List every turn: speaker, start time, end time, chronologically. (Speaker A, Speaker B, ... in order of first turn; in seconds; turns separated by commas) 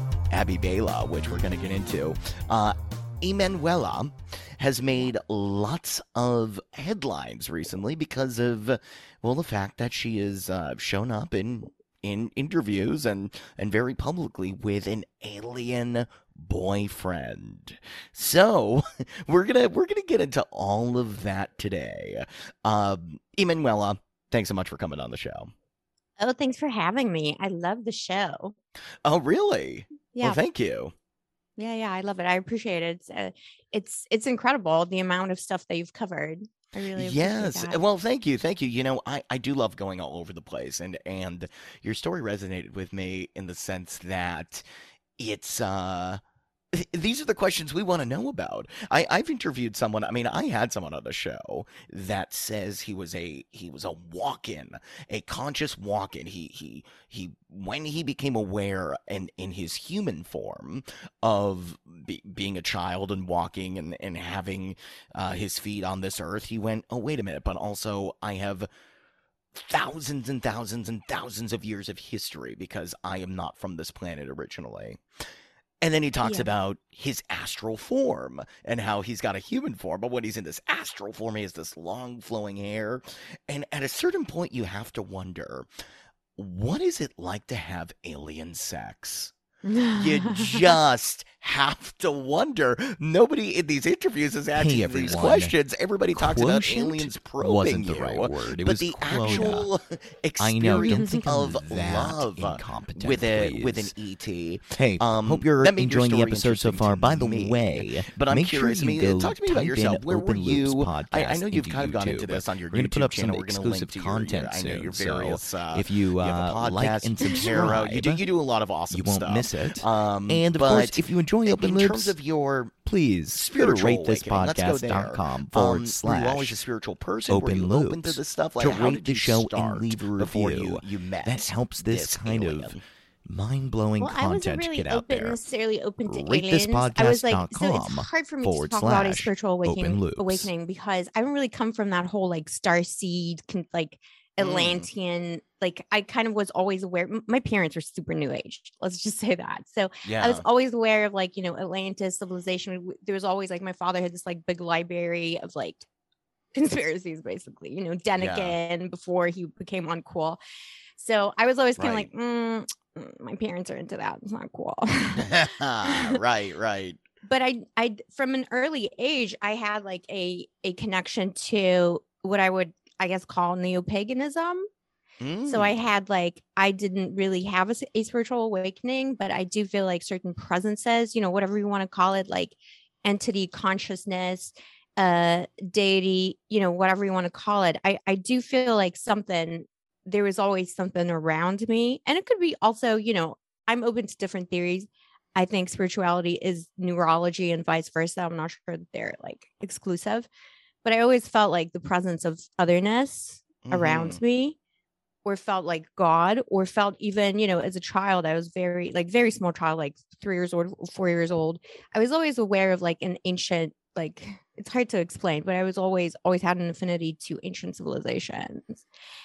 Speaker A: 0.3-25.5, Speaker B: 26.2-28.6, Speaker A: 29.0-30.9, Speaker B: 30.1-30.4, Speaker B: 31.6-37.8, Speaker A: 37.0-44.6, Speaker A: 45.2-46.2, Speaker A: 46.7-68.7, Speaker A: 69.5-75.0, Speaker A: 75.8-85.7, Speaker B: 76.2-76.5, Speaker A: 86.4-89.3, Speaker B: 89.6-90.7, Speaker A: 89.9-122.7, Speaker C: 94.6-95.5, Speaker C: 96.2-99.6, Speaker C: 100.4-103.9, Speaker B: 100.8-101.2, Speaker C: 104.8-118.2, Speaker C: 118.9-122.1, Speaker C: 122.8-126.5, Speaker A: 123.3-132.8, Speaker C: 127.3-132.7, Speaker C: 133.3-134.6, Speaker B: 134.0-155.8, Speaker A: 134.8-135.4, Speaker A: 138.8-140.5, Speaker A: 144.4-144.9, Speaker A: 150.0-150.4, Speaker B: 156.5-160.4, Speaker A: 158.2-158.6, Speaker B: 161.0-166.2, Speaker A: 161.8-162.1, Speaker A: 165.2-167.0, Speaker B: 167.2-174.7, Speaker A: 175.2-175.8, Speaker B: 175.5-200.3, Speaker B: 200.8-204.6, Speaker A: 203.6-204.2, Speaker B: 205.2-218.8